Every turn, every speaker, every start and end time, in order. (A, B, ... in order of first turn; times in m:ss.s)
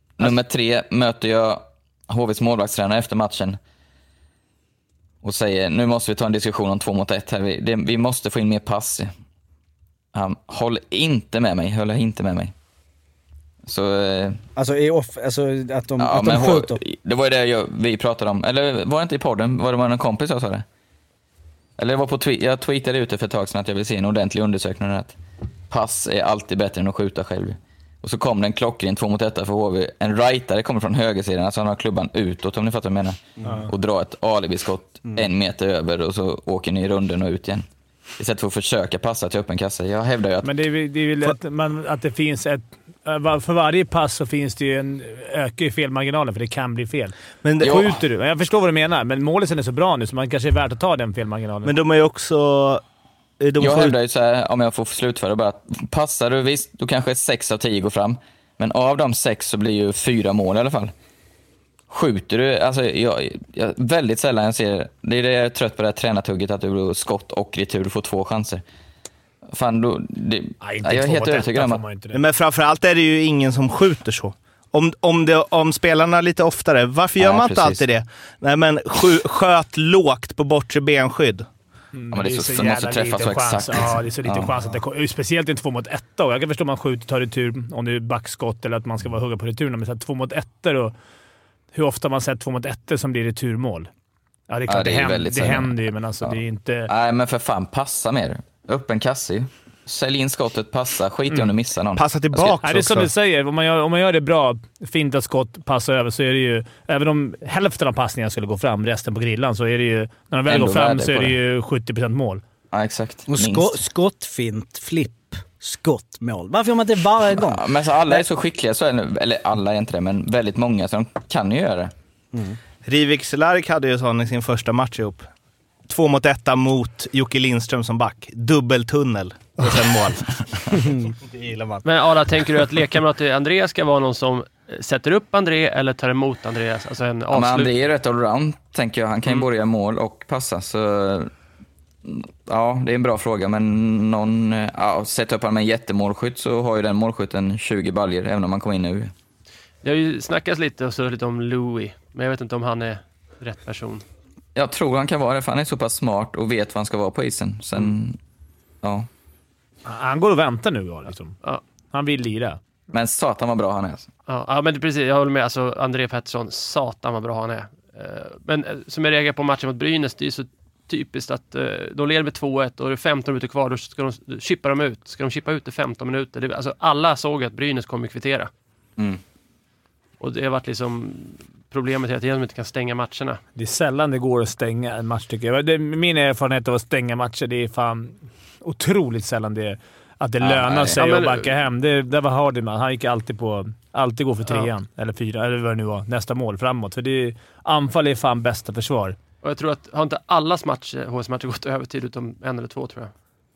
0:00.2-0:03.6 A
0:05.2-0:09.1 A
0:10.1-0:12.5 A
0:13.6-0:14.4 A
0:14.6-0:16.8 B
0:16.0-0:20.6 A
0:21.8-0:25.2 A
0:25.7-0:37.7 A
0:33.4-0:33.7 C
0:38.2-0:40.5 A
0:40.4-0:51.7 C
0:47.4-0:47.9 D
0:47.6-0:47.9 A
0:51.6-0:52.8 D
0:53.4-0:53.9 D
0:53.6-1:00.9 A
1:01.9-1:08.6 A
1:09.5-1:11.8 A
1:10.6-1:12.2 C
1:12.1-1:21.5 D
1:17.2-1:17.8 A
1:21.9-1:30.9 C
1:22.1-1:24.5 A
1:31.7-1:33.9 C
1:34.5-1:36.9 C
1:34.7-1:42.6 A
1:42.0-1:43.1 D
1:42.6-1:52.4 C
1:50.5-1:51.3 A
1:52.7-1:53.7 A
1:53.3-1:58.2 B
1:57.4-2:01.9 A
2:02.3-2:02.6 B
2:02.8-2:05.3 D
2:05.8-2:11.8 D
2:11.8-2:17.7 E
2:17.3-2:21.3 A
2:22.0-2:29.1 A
2:29.8-2:34.0 E
2:34.5-2:38.2 A
2:38.8-2:39.1 A
2:39.8-2:41.4 C
2:41.9-2:42.6 C
2:42.9-2:44.1 A
2:44.3-2:58.5 E
3:00.2-3:03.4 E
3:03.6-3:19.2 C
3:10.4-3:11.0 A
3:10.9-3:11.5 E
3:19.4-3:23.1 E